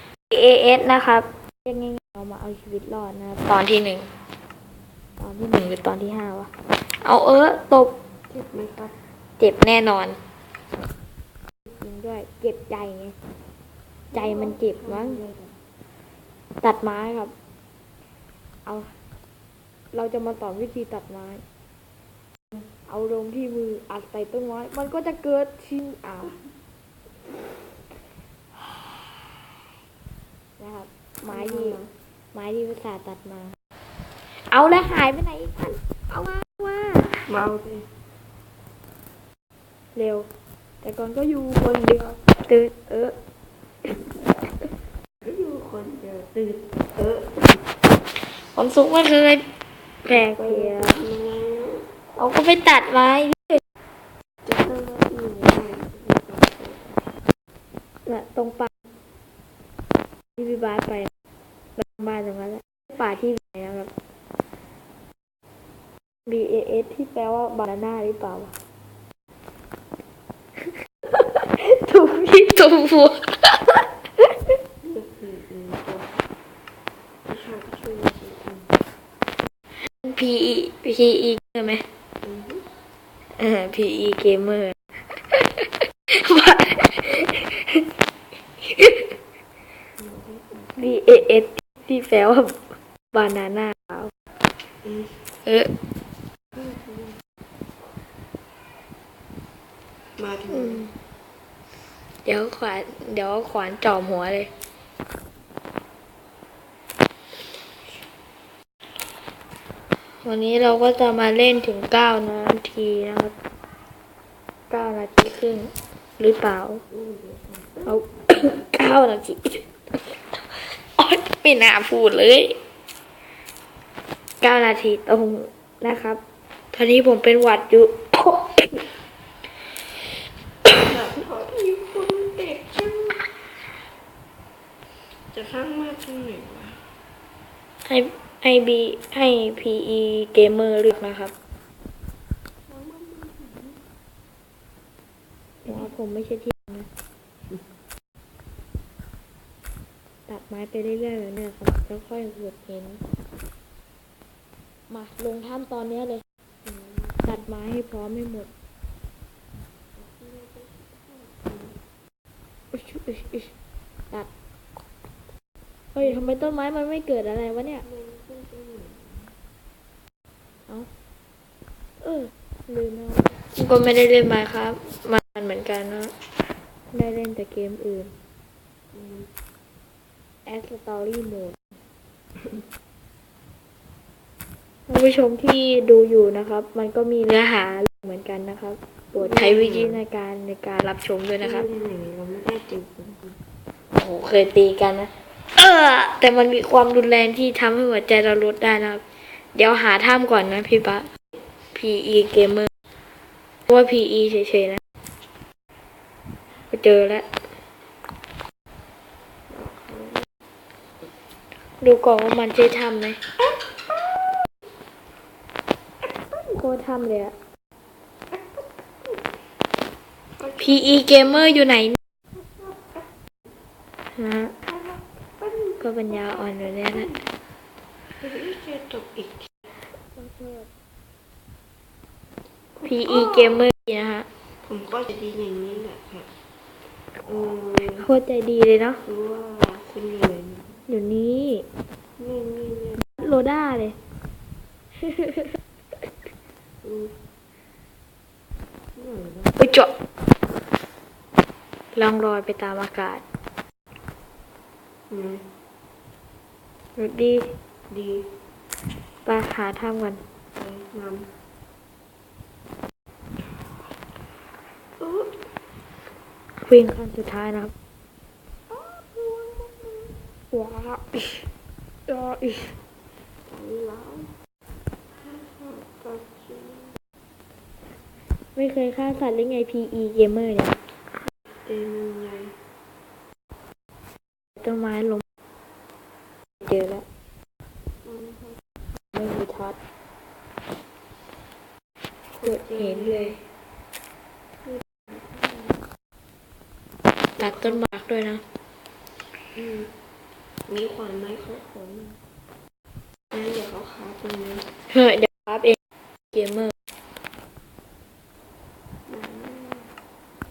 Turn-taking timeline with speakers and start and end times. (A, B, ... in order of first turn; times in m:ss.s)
0:00.3-0:04.1 A
0:05.2-0:07.9 A
0:08.3-0:08.9 B
0:09.4-0:10.2 A
0:11.6-0:13.1 A
0:14.1-0:15.6 B
0:14.1-0:15.2 A
0:16.6-0:17.3 A
0:18.6-0:18.9 A
0:19.9-0:21.4 A
0:22.8-0:26.3 A
0:30.6-0:31.8 A
0:31.2-0:31.9 B
0:32.3-0:33.5 A
0:34.5-0:37.2 A
0:37.2-0:37.9 B
0:39.9-0:40.2 A
0:40.8-0:43.1 A
0:45.2-0:47.6 B
0:48.3-0:49.4 A
0:50.0-0:51.0 A
0:50.0-0:51.9 B
0:52.2-0:53.6 A
0:54.4-0:57.0 B
0:58.0-0:58.7 A
1:00.4-1:01.1 A
1:01.8-1:03.9 A
1:06.2-1:08.5 A
1:10.6-1:14.3 A
1:14.8-1:16.2 B
1:17.3-1:18.7 B
1:19.9-1:21.8 A
1:22.2-1:22.6 B
1:23.4-1:27.8 A
1:28.6-1:29.1 A
1:30.0-1:31.1 B
1:30.8-1:34.1 A
1:34.8-1:35.2 B
1:35.4-1:35.7 A
1:36.5-1:37.2 B
1:40.2-1:40.9 B
1:40.5-1:40.9 A
1:42.2-1:44.5 A
1:50.2-1:53.3 A
1:54.7-1:56.8 A
1:56.9-1:58.5 B
1:57.8-2:02.6 A
2:04.4-2:06.2 A
2:06.7-2:08.8 A
2:10.8-2:13.6 B
2:15.3-2:16.8 B
2:17.8-2:21.3 A
2:22.7-2:23.8 B
2:25.6-2:26.9 A
2:30.3-2:33.0 A
2:34.9-2:36.2 A
2:36.6-2:37.4 B
2:37.2-2:38.5 A
2:39.9-2:41.8 B
2:42.7-2:43.5 A
2:45.9-2:47.8 A
2:46.0-2:46.3 B
2:47.8-2:49.3 B
2:52.0-2:56.1 A
2:56.9-2:58.1 A
2:58.9-2:59.3 B
3:00.4-3:01.6 A
3:04.9-3:11.7 A
3:09.2-3:10.0 B
3:11.4-3:13.4 B
3:13.9-3:21.1 A
3:21.7-3:22.7 A
3:23.7-3:24.8 A
3:26.7-3:27.3 A
3:29.5-3:30.2 B
3:31.8-3:33.2 A
3:33.4-3:34.5 B
3:36.0-3:36.6 B
3:36.5-3:37.3 A
3:38.3-3:39.2 B
3:40.4-3:40.8 B
3:40.6-3:42.0 A
3:42.3-3:43.1 B
3:44.1-3:44.5 A
3:44.6-3:47.3 B
3:45.8-3:47.1 A
3:48.2-3:49.5 B
3:50.1-3:50.7 A
3:52.8-3:53.7 B
3:52.8-3:54.3 A
3:54.6-3:56.3 B
3:57.2-3:58.1 B
3:58.0-3:59.0 A
3:59.0-4:00.8 B
4:00.9-4:01.6 A
4:02.2-4:03.0 B
4:03.0-4:04.0 A
4:05.0-4:05.5 A
4:06.8-4:07.1 B
4:08.9-4:09.6 B
4:09.6-4:09.9 A
4:11.9-4:13.2 A
4:15.1-4:15.5 B
4:17.0-4:17.5 A
4:17.9-4:18.3 B
4:19.2-4:20.2 A
4:20.5-4:21.3 B
4:25.0-4:25.4 B
4:26.6-4:27.7 A
4:28.7-4:30.2 B
4:30.5-4:31.4 A
4:32.1-4:32.8 A
4:33.4-4:34.3 B
4:35.2-4:37.0 B
4:38.5-4:40.8 A
4:41.5-4:42.6 B
4:44.6-4:45.2 A
4:46.6-4:47.0 A
4:48.0-4:48.6 B
4:49.1-4:49.8 A
4:52.3-4:53.4 B
4:52.4-4:53.4 A
4:54.6-4:55.8 B
4:57.4-4:58.4 A
4:57.4-4:57.8 B
4:59.5-4:59.9 B
5:00.7-5:02.2 B
5:03.3-5:04.7 B
5:04.9-5:05.8 A
5:06.3-5:06.7 A
5:09.0-5:09.9 B